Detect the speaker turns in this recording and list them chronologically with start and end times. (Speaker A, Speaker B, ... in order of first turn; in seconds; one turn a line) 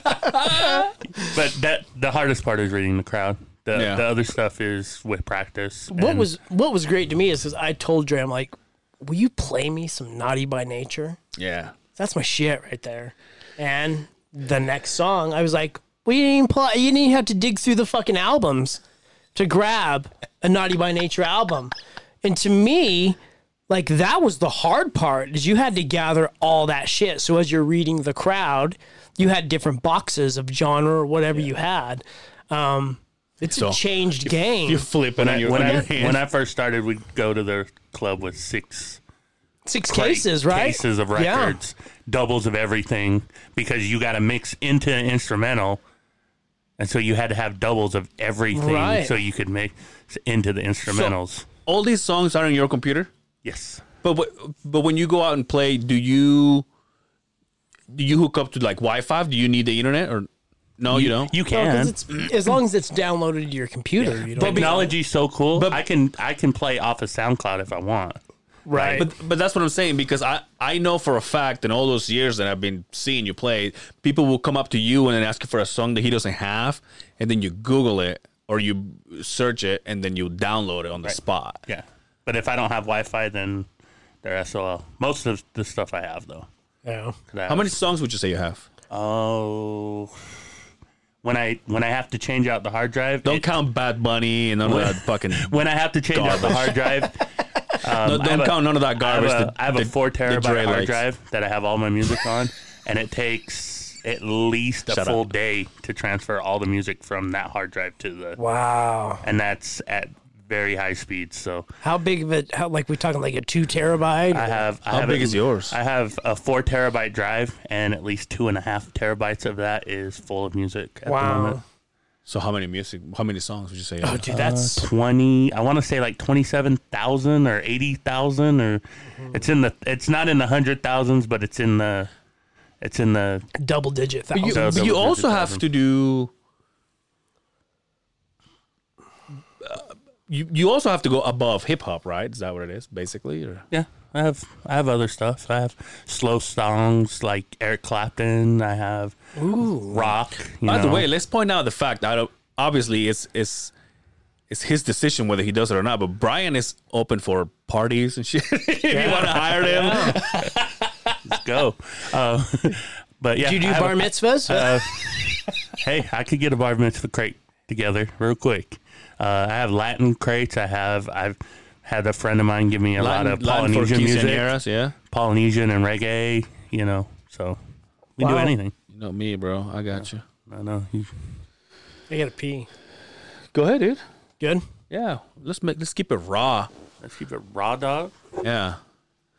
Speaker A: 0.2-0.8
Speaker B: 0.7-6.3
Speaker A: 3.7-4.0
Speaker C: 5.9-11.2
Speaker A: 11.4-11.8
Speaker C: 12.0-18.8
Speaker C: 19.4-21.7
Speaker C: 22.2-23.2
Speaker C: 23.7-34.9
Speaker A: 33.5-36.2
Speaker B: 35.2-39.0
Speaker C: 35.4-35.9
Speaker C: 39.7-41.6
Speaker B: 39.9-45.8
Speaker B: 46.8-51.5
Speaker C: 48.5-49.1
Speaker A: 50.9-51.1
Speaker A: 51.7-53.1
Speaker B: 53.4-53.8
Speaker A: 54.0-56.7
Speaker A: 57.9-61.3
Speaker B: 60.9-62.0
Speaker C: 61.5-64.9
Speaker A: 64.3-64.9
Speaker B: 64.3-68.2
Speaker A: 65.5-65.8
Speaker C: 68.7-69.1
Speaker A: 68.8-81.6
Speaker B: 81.7-83.7
Speaker B: 84.2-86.5
Speaker C: 86.8-87.2
Speaker B: 87.3-87.7
Speaker A: 87.5-88.7
Speaker B: 88.9-90.2
Speaker B: 91.2-93.5
Speaker A: 93.2-95.6
Speaker B: 94.6-97.2
Speaker A: 96.1-96.8
Speaker B: 97.8-108.4
Speaker A: 98.0-101.0
Speaker A: 104.9-105.2
Speaker C: 108.4-109.2
Speaker B: 109.2-111.7
Speaker C: 111.8-114.6
Speaker B: 114.3-121.6
Speaker A: 114.9-115.8
Speaker C: 121.1-121.6
Speaker A: 122.3-124.3
Speaker C: 124.0-124.9
Speaker B: 124.3-132.1
Speaker B: 132.8-133.5
Speaker C: 133.6-134.8
Speaker A: 134.3-136.3
Speaker B: 134.5-135.6
Speaker A: 139.6-143.7
Speaker B: 143.7-149.2
Speaker C: 149.4-150.1
Speaker B: 149.8-151.1
Speaker A: 150.7-153.7
Speaker A: 154.5-161.1
Speaker C: 158.9-160.2
Speaker B: 161.3-174.5
Speaker C: 163.4-164.7
Speaker A: 173.0-174.9
Speaker B: 175.1-177.6
Speaker B: 178.2-178.8
Speaker C: 178.2-178.5
Speaker A: 178.9-180.2
Speaker B: 180.5-181.1
Speaker C: 182.1-182.7
Speaker A: 183.5-184.0
Speaker A: 184.9-186.7
Speaker B: 187.0-188.1
Speaker A: 188.4-188.8